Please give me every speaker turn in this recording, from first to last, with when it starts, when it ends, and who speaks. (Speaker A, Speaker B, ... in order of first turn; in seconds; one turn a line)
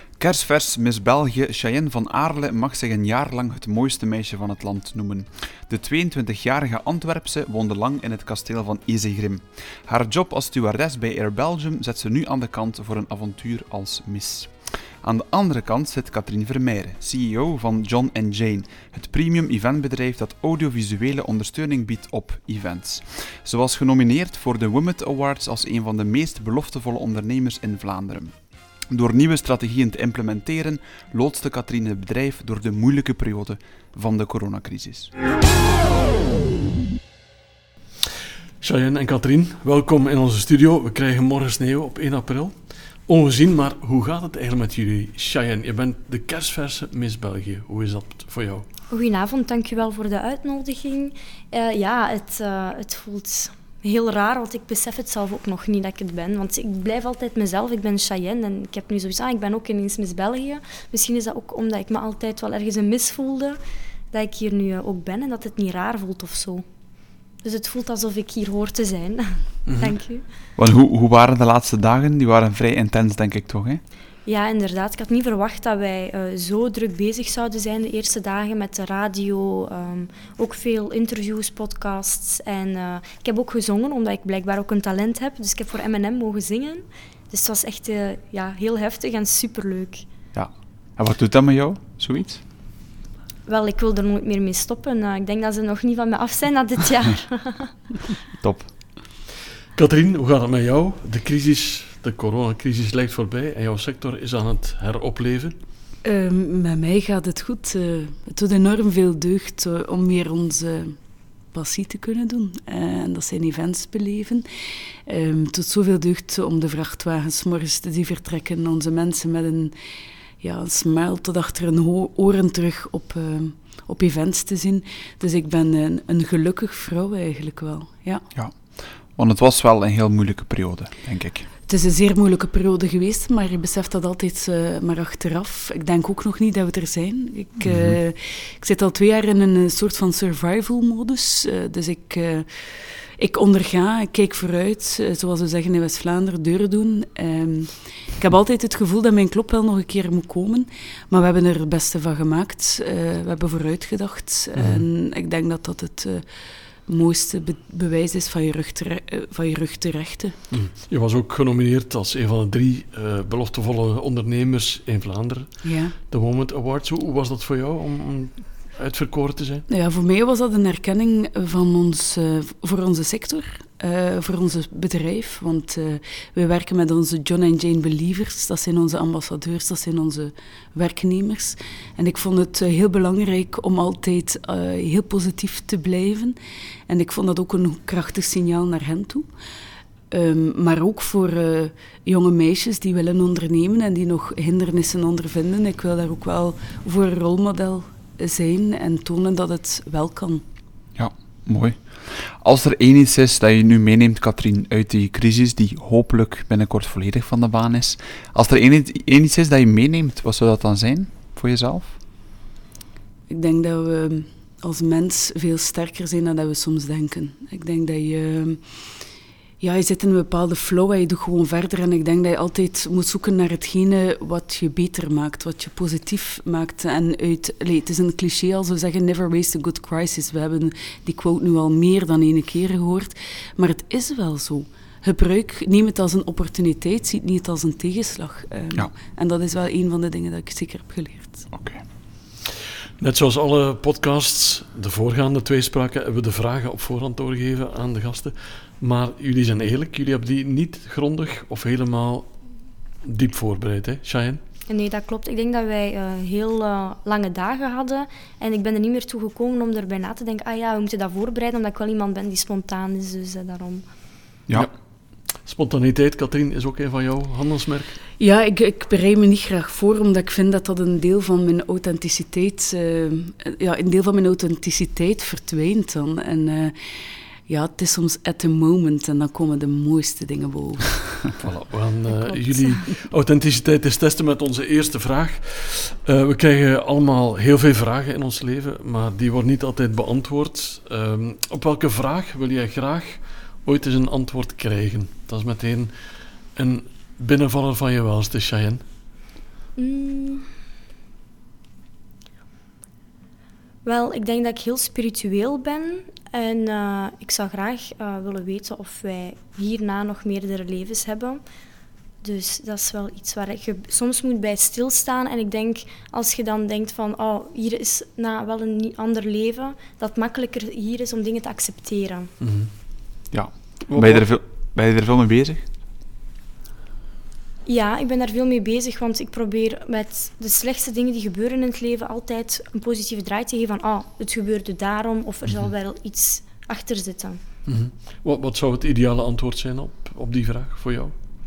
Speaker A: 0.2-28.4
Speaker A: 28.9-35.1
Speaker B: 38.6-48.6
Speaker C: 48.9-63.6
Speaker C: 64.1-66.6
Speaker C: 67.4-70.2
Speaker B: 69.7-70.0
Speaker A: 70.6-73.8
Speaker C: 74.3-90.0
Speaker A: 90.3-92.4
Speaker C: 93.5-97.8
Speaker A: 98.4-98.7
Speaker B: 99.8-105.5
Speaker D: 106.0-111.0
Speaker D: 111.5-114.5
Speaker D: 115.1-119.7
Speaker D: 120.4-128.2
Speaker A: 128.3-131.5
Speaker D: 131.7-160.4
Speaker A: 137.7-138.0
Speaker B: 154.6-154.9
Speaker B: 160.5-169.7
Speaker D: 165.6-165.9
Speaker D: 169.7-186.4
Speaker D: 186.9-189.3
Speaker D: 190.1-200.4
Speaker A: 201.0-211.9
Speaker D: 213.3-218.8
Speaker D: 219.6-241.5
Speaker A: 241.5-241.8
Speaker B: 243.0-252.3
Speaker B: 253.0-254.4
Speaker C: 254.7-263.9
Speaker B: 265.4-268.0
Speaker D: 268.2-281.2
Speaker B: 281.4-298.8
Speaker C: 282.2-282.8
Speaker C: 299.8-300.5
Speaker C: 303.8-311.4
Speaker C: 312.2-322.3
Speaker B: 322.4-322.7
Speaker A: 323.3-325.7
Speaker B: 323.9-324.3
Speaker C: 327.7-337.4
Speaker B: 337.7-341.1